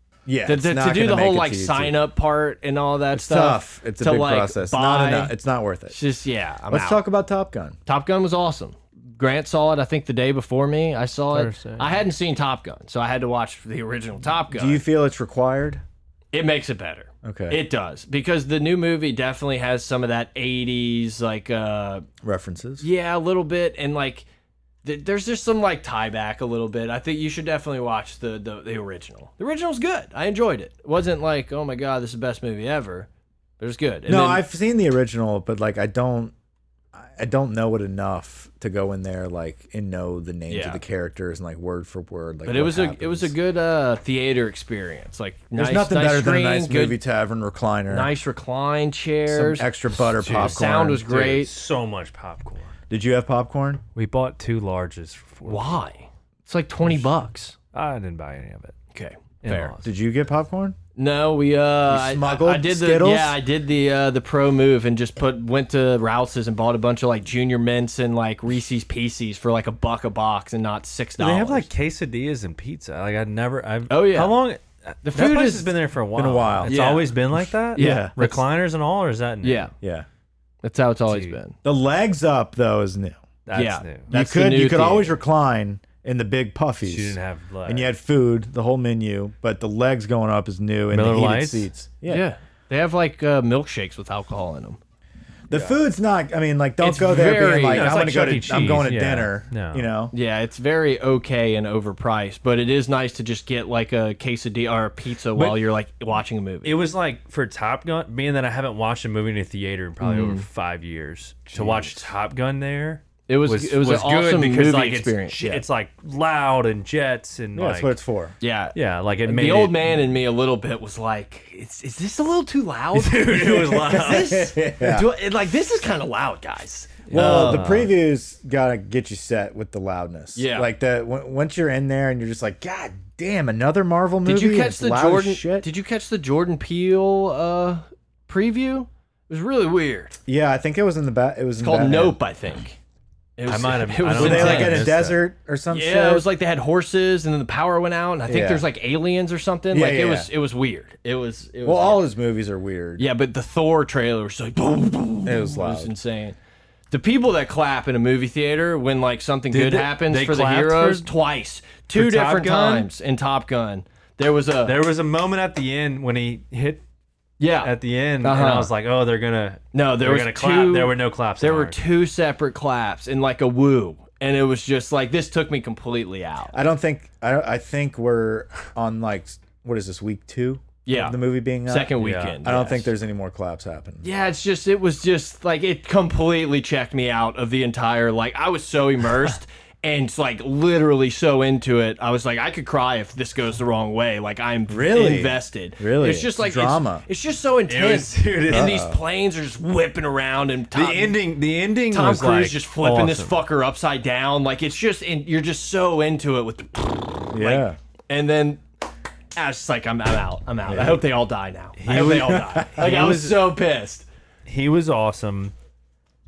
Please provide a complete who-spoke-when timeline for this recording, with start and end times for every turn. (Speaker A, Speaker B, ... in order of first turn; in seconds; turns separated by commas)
Speaker A: 0.3-2.0, Speaker B: 0.5-5.3, Speaker A: 3.1-6.0, Speaker B: 5.9-7.0, Speaker A: 6.7-7.8, Speaker B: 7.9-14.8, Speaker C: 11.3-12.0, Speaker A: 14.5-15.8, Speaker B: 16.3-22.1, Speaker A: 17.2-17.6, Speaker A: 22.2-22.9, Speaker B: 22.8-24.3, Speaker B: 24.8-33.1, Speaker B: 33.6-34.4, Speaker A: 34.1-36.3, Speaker A: 37.0-43.3, Speaker B: 40.5-40.8, Speaker B: 42.5-47.0, Speaker A: 45.6-48.1, Speaker B: 47.9-51.5, Speaker A: 49.3-51.1, Speaker C: 50.2-52.7, Speaker A: 52.9-53.8, Speaker C: 54.0-55.8, Speaker B: 55.5-57.6, Speaker C: 57.7-58.8, Speaker B: 58.9-59.8, Speaker C: 59.4-59.9, Speaker A: 59.8-60.8, Speaker B: 61.0-71.7, Speaker A: 61.9-63.4, Speaker C: 71.2-79.7, Speaker B: 73.9-74.4, Speaker B: 75.0-75.7, Speaker A: 76.2-76.8, Speaker B: 76.7-77.2, Speaker B: 77.7-78.4, Speaker A: 77.8-78.1, Speaker B: 79.4-79.7, Speaker A: 79.8-80.1, Speaker B: 80.6-81.5, Speaker C: 81.1-81.4, Speaker A: 81.6-83.2, Speaker C: 83.5-84.1, Speaker B: 83.5-85.2, Speaker A: 84.1-92.2, Speaker C: 86.8-87.9, Speaker C: 90.9-91.7, Speaker B: 92.1-94.8, Speaker A: 95.5-100.1, Speaker C: 95.5-95.8, Speaker B: 96.8-98.3, Speaker C: 97.5-99.9, Speaker B: 100.1-106.8, Speaker C: 105.3-105.6, Speaker C: 106.6-118.0, Speaker B: 110.0-110.5, Speaker B: 111.5-111.9, Speaker B: 113.3-115.6, Speaker A: 117.5-118.3, Speaker B: 118.4-127.8, Speaker C: 118.8-120.0, Speaker C: 122.9-124.5, Speaker A: 123.8-125.1, Speaker C: 127.1-127.9, Speaker A: 127.1-135.7, Speaker B: 130.3-130.7, Speaker B: 134.2-140.2, Speaker A: 140.3-142.2, Speaker B: 141.6-142.8, Speaker B: 143.4-144.9, Speaker C: 143.5-145.2, Speaker A: 144.1-146.3, Speaker B: 145.7-152.0, Speaker A: 148.3-148.7, Speaker A: 149.7-150.3, Speaker A: 151.6-153.1, Speaker B: 153.0-156.4, Speaker A: 155.2-155.9, Speaker B: 156.9-164.8, Speaker C: 159.5-161.1, Speaker C: 161.9-162.9, Speaker C: 164.7-166.8, Speaker B: 167.4-168.7, Speaker C: 167.6-171.8, Speaker B: 169.7-176.5, Speaker A: 176.5-184.1, Speaker B: 180.8-182.9, Speaker C: 182.0-182.4, Speaker B: 184.0-201.2, Speaker A: 194.7-197.1, Speaker C: 197.7-198.8, Speaker A: 198.5-199.0, Speaker C: 200.7-203.4, Speaker B: 201.9-208.6, Speaker A: 207.3-207.8, Speaker B: 209.4-214.1, Speaker A: 210.7-211.1, Speaker C: 211.8-213.5, Speaker A: 212.0-212.9, Speaker C: 214.5-215.5